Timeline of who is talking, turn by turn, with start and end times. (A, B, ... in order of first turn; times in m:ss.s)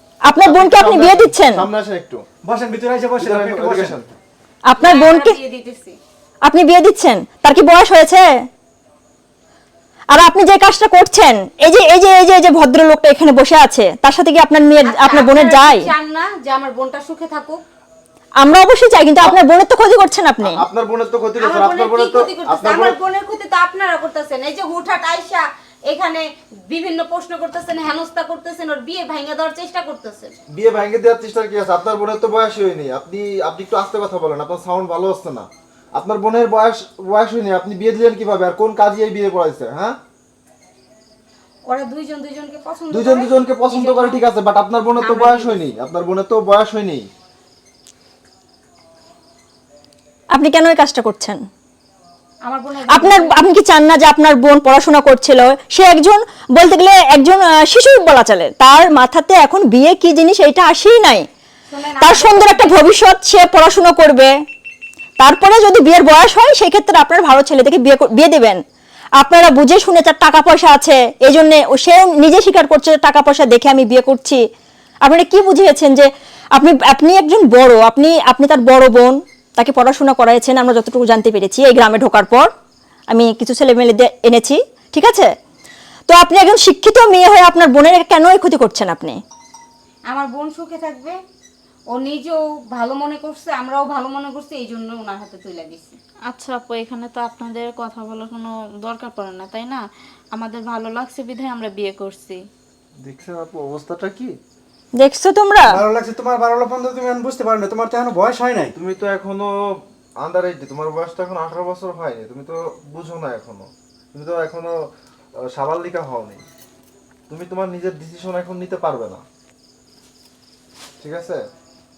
0:00.2-0:01.6 A
0:00.4-0:02.2 B
0:02.4-0:04.0 C
0:03.2-0:04.1 B
0:04.6-0:05.4 A
0:04.8-0:06.0 D
0:06.4-0:08.3 A
0:10.1-0:15.9 A
0:14.8-0:17.6 D
0:18.4-0:20.6 A
0:20.4-0:23.0 B
0:21.4-0:30.3 D
0:30.5-0:40.0 B
0:41.6-0:44.2 D
0:42.9-0:47.1 B
0:45.0-0:45.6 D
0:50.3-0:51.4 A
0:52.4-0:53.4 D
0:52.9-1:01.3 A
1:01.7-1:02.9 D
1:02.0-1:04.3 A
1:05.2-1:08.6 A
1:09.2-1:14.4 A
1:15.0-1:22.5 A
1:23.1-1:25.3 A
1:26.1-1:29.2 A
1:30.1-1:31.2 D
1:31.9-1:36.0 D
1:36.3-1:42.4 E
1:43.0-1:44.4 B
1:45.0-1:45.8 A
1:45.7-1:48.7 C
1:48.8-1:54.8 B
1:55.4-1:56.4 B
1:57.3-1:59.2 B
2:01.0-2:01.4 B